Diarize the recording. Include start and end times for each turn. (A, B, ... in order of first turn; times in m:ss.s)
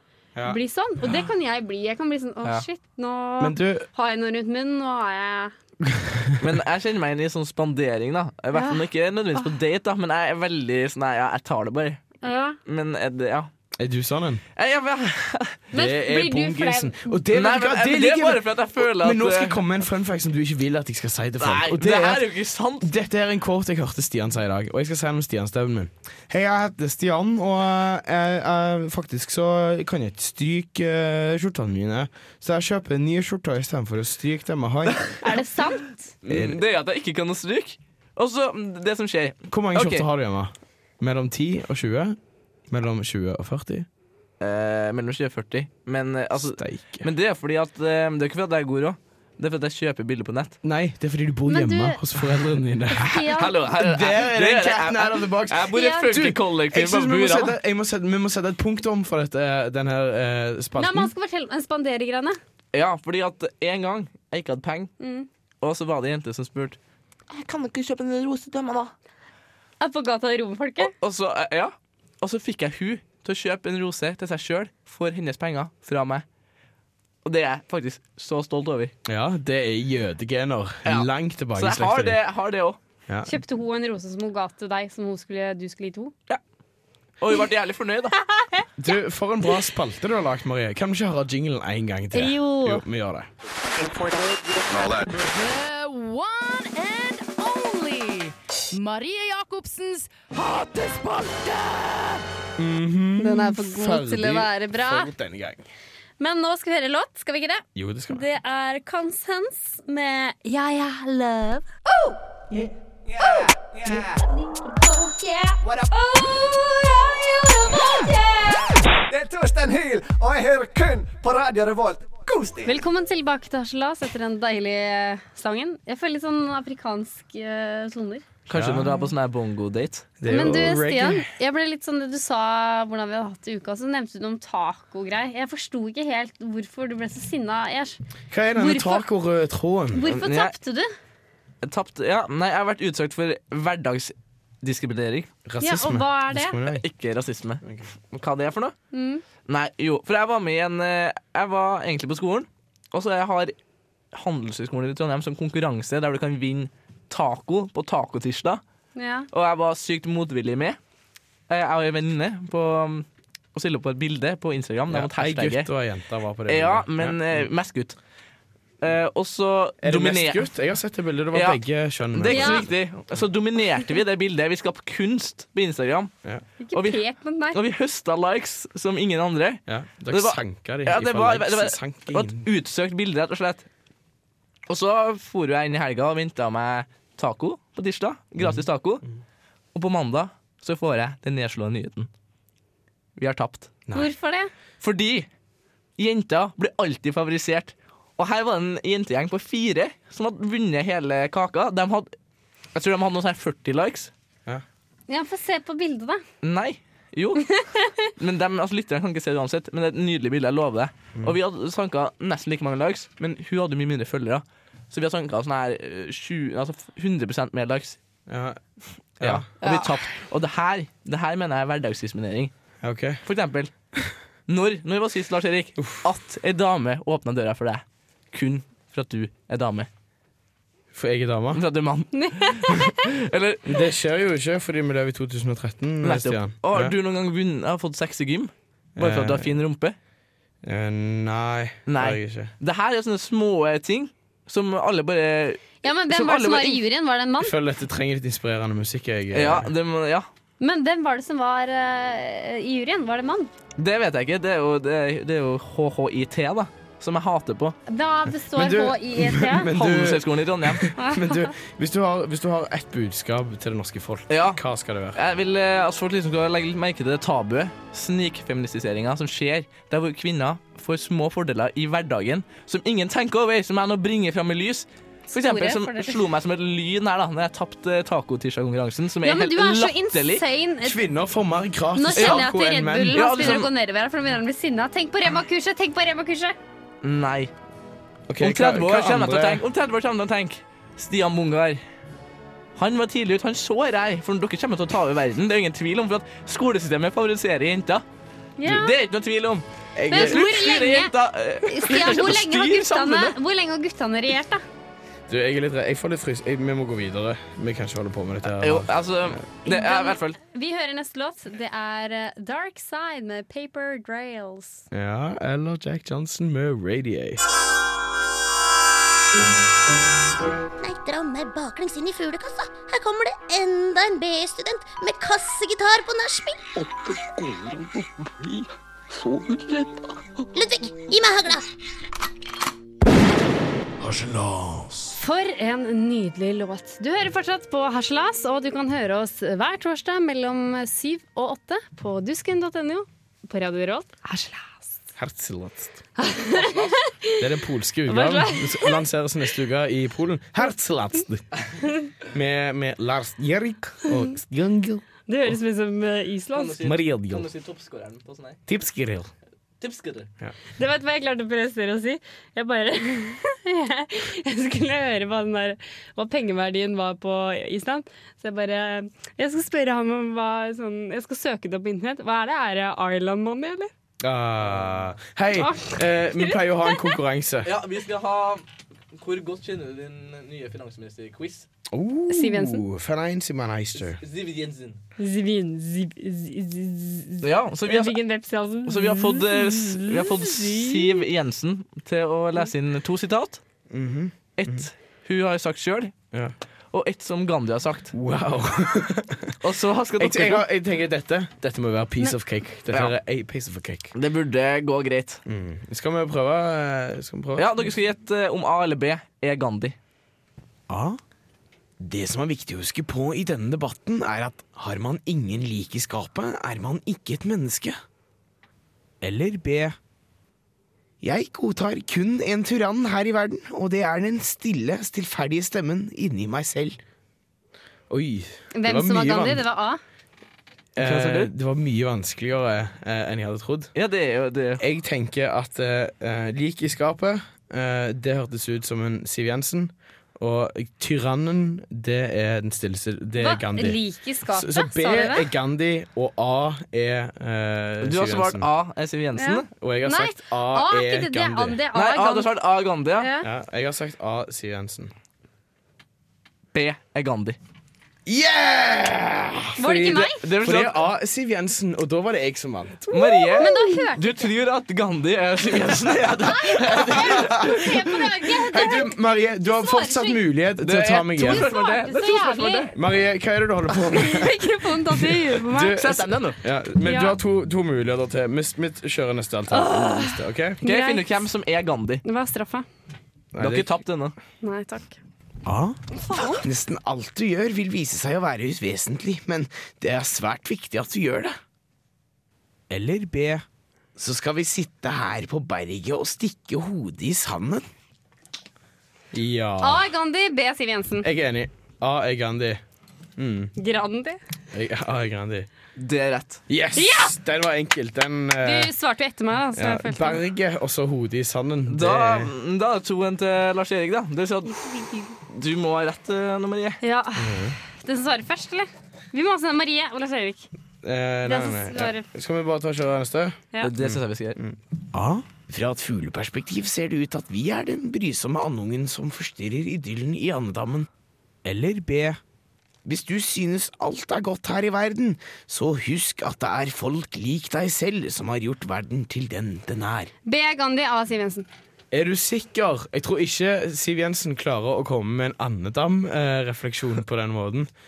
0:00.4-0:01.2 A
0:00.4-0:05.5 B
0:03.4-0:03.9 A
0:05.8-0:06.4 A
0:06.4-0:12.0 C
0:08.5-0:08.8 B
0:12.2-0:12.6 B
0:12.7-0:13.5 C
0:13.8-0:14.4 A
0:14.6-0:15.6 C
0:15.7-0:17.1 B
0:15.7-0:22.3 A
0:17.3-0:19.6 C
0:21.4-0:22.9 C
0:22.8-0:35.1 A
0:34.9-0:35.2 C
0:35.2-0:36.1 B
0:36.2-0:40.1 C
0:36.3-0:36.6 A
0:39.5-0:42.2 A
0:42.7-0:43.9 A
0:44.4-0:50.6 C
0:46.5-0:47.1 A
0:50.6-1:01.1 A
0:51.5-0:52.0 B
0:52.9-0:53.5 B
0:53.3-0:57.5 C
0:55.7-0:56.2 B
1:00.8-1:02.4 B
1:02.7-1:04.9 C
1:05.0-1:05.3 B
1:05.6-1:06.8 C
1:07.3-1:08.9 C
1:09.8-1:10.9 B
1:10.8-1:16.2 C
1:17.2-1:18.9 C
1:19.0-1:22.2 A
1:20.8-1:22.8 C
1:23.1-1:23.4 A
1:23.2-1:26.1 B
1:27.2-1:28.2 C
1:28.3-1:28.7 B
1:28.8-1:33.3 A
1:32.1-1:32.8 B
1:33.9-1:34.8 D
1:34.8-1:42.2 E
1:42.6-1:45.7 A
1:43.2-1:45.1 B
1:46.2-1:52.7 B
1:47.8-1:48.2 A
1:53.1-1:54.2 D
1:53.2-1:58.8 B
1:55.6-1:56.0 D
1:57.8-1:58.1 D
1:59.1-2:02.7 D
2:02.6-2:08.3 B
2:08.5-2:10.1 C
2:08.5-2:09.0 A
2:10.2-2:11.3 A
2:10.3-2:18.0 B
2:18.3-2:20.2 A
2:18.6-2:19.0 B
2:19.9-2:20.9 B
2:20.1-2:20.6 C
2:21.6-2:25.3 C
2:25.5-2:26.8 A
2:25.6-2:26.6 B
2:26.7-2:28.8 C
2:27.6-2:27.9 A
2:28.9-2:29.2 B
2:29.5-2:33.6 C
2:34.1-2:38.6 C
2:39.0-2:39.3 B
2:39.3-2:40.8 C
2:41.5-2:45.7 C
2:44.9-2:47.5 A
2:46.5-2:48.0 C
2:48.8-2:50.5 C
2:49.8-2:52.7 A
2:51.3-2:51.6 C
2:52.1-2:56.1 C
2:52.3-2:52.7 B
2:56.6-2:57.6 B
2:56.7-2:57.0 C
2:57.5-3:03.7 C
2:59.7-3:02.5 A
3:04.7-3:09.0 C
3:08.4-3:09.1 A
3:09.7-3:12.1 C
3:13.2-3:13.7 C
3:13.9-3:14.5 B
3:14.8-3:15.3 C
3:16.0-3:22.1 C
3:22.7-3:24.1 C
3:25.1-3:26.2 B
3:26.4-3:27.5 C
3:27.6-3:27.9 B
3:28.2-3:38.0 C
3:38.3-3:38.6 A
3:39.2-3:39.5 A
3:39.2-3:42.5 C
3:42.8-3:43.2 A
3:43.2-3:43.7 C
3:44.5-3:49.9 C
3:45.8-3:46.0 A
3:50.9-3:51.6 A
3:51.5-3:53.8 C
3:52.1-3:53.0 B
3:53.7-3:57.0 A
3:56.0-4:00.0 C
3:59.0-3:59.6 A
4:00.6-4:02.5 A
4:01.9-4:06.8 C
4:05.8-4:07.5 B
4:07.4-4:09.7 A
4:09.3-4:10.3 C
4:10.6-4:13.5 B
4:13.8-4:17.8 C
4:17.9-4:19.7 B
4:18.5-4:25.2 A
4:19.8-4:20.9 C
4:21.0-4:21.5 B
4:24.3-4:24.6 C
4:25.2-4:40.4 C
4:35.3-4:36.2 B
4:39.2-4:41.0 B
4:40.8-4:43.7 A
4:42.0-4:46.6 B
4:42.2-4:42.4 C
4:43.1-4:43.7 C
4:47.0-4:47.5 C
4:48.3-4:49.6 A
4:48.4-4:51.8 C
4:52.8-4:58.0 C
4:58.6-4:58.9 B
4:58.6-5:03.4 C
5:00.0-5:00.5 A
5:00.1-5:01.1 B
5:01.7-5:04.6 B
5:05.3-5:09.4 A
5:08.4-5:10.4 C
5:09.7-5:14.9 B
5:14.9-5:17.4 A
5:20.8-5:26.8 F
5:27.3-5:28.6 A
5:29.2-5:30.1 A
5:30.6-5:31.7 F
5:34.0-5:35.1 A
5:35.1-5:45.0 B
5:45.2-5:46.0 A
5:46.2-5:47.5 B
5:46.5-5:47.0 C
5:47.4-5:51.5 A
5:48.1-5:49.0 B
5:52.3-5:55.0 A
5:55.3-5:56.8 B
5:56.5-5:58.6 C
5:56.8-5:57.5 A
5:58.7-5:59.3 A
5:59.8-6:00.3 C
6:00.8-6:13.9 B
6:14.2-6:17.7 A
6:15.6-6:17.1 B
6:17.6-6:21.7 C
6:21.9-6:24.2 A
6:22.3-6:22.8 B
6:24.2-6:25.0 C
6:25.2-6:31.2 B
6:27.4-6:28.2 C
6:28.8-6:33.6 C
6:33.9-6:34.9 A
6:34.6-6:36.2 C
6:36.9-6:38.1 C
6:38.1-6:39.6 A
6:39.6-6:40.6 C
6:40.2-6:44.1 A
6:44.1-6:45.4 C
6:45.5-6:47.9 A
6:47.6-6:50.0 C
6:50.9-6:51.2 A
6:52.0-6:58.0 A
6:59.2-7:00.0 A
7:01.2-7:07.0 A
7:08.1-7:09.6 A
7:08.8-7:10.0 B
7:11.0-7:13.9 A
7:11.0-7:11.5 C
7:14.0-7:14.8 C
7:14.8-7:28.7 A
7:23.4-7:25.5 B
7:28.0-7:29.7 C
7:29.4-7:32.6 B
7:29.8-7:31.8 A
7:31.9-7:33.3 C
7:33.2-7:33.5 B
7:33.4-7:35.1 A
7:36.7-7:37.6 C
7:38.3-7:43.7 A
7:39.8-7:40.4 B
7:40.3-7:41.1 C
7:43.1-7:48.2 C
7:43.6-7:44.4 B
7:45.9-7:48.0 A
7:46.5-7:50.4 B
7:48.6-7:51.7 A
7:50.8-7:52.9 C
7:51.4-7:52.9 B
7:52.9-8:00.8 A
7:54.1-7:56.0 B
7:56.0-7:56.6 C
7:57.0-7:57.4 B
7:59.7-8:01.5 B
8:00.8-8:02.2 C
8:02.2-8:02.9 B
8:03.5-8:04.0 A
8:03.6-8:04.4 C
8:04.6-8:05.2 B
8:05.6-8:06.0 A
8:06.3-8:06.6 B
8:06.5-8:11.6 A
8:12.9-8:13.6 A
8:14.2-8:17.8 A
8:19.3-8:20.0 A
8:19.8-8:21.3 B
8:21.2-8:22.8 A
8:23.4-8:23.7 A
8:23.8-8:24.4 B
8:24.7-8:25.7 A
8:26.0-8:26.6 C
8:26.7-8:28.9 A
8:27.0-8:27.4 B
8:28.6-8:30.4 B
8:29.8-8:32.5 A
8:31.9-8:34.9 C
8:34.8-8:35.2 B
8:35.5-8:37.0 C
8:37.0-8:40.7 B
8:37.4-8:37.8 A
8:41.0-8:51.1 A
8:41.4-8:42.3 B
8:43.8-8:44.6 C
8:51.6-8:52.4 A
8:53.0-9:00.3 A
9:00.5-9:01.7 B
9:02.1-9:07.9 A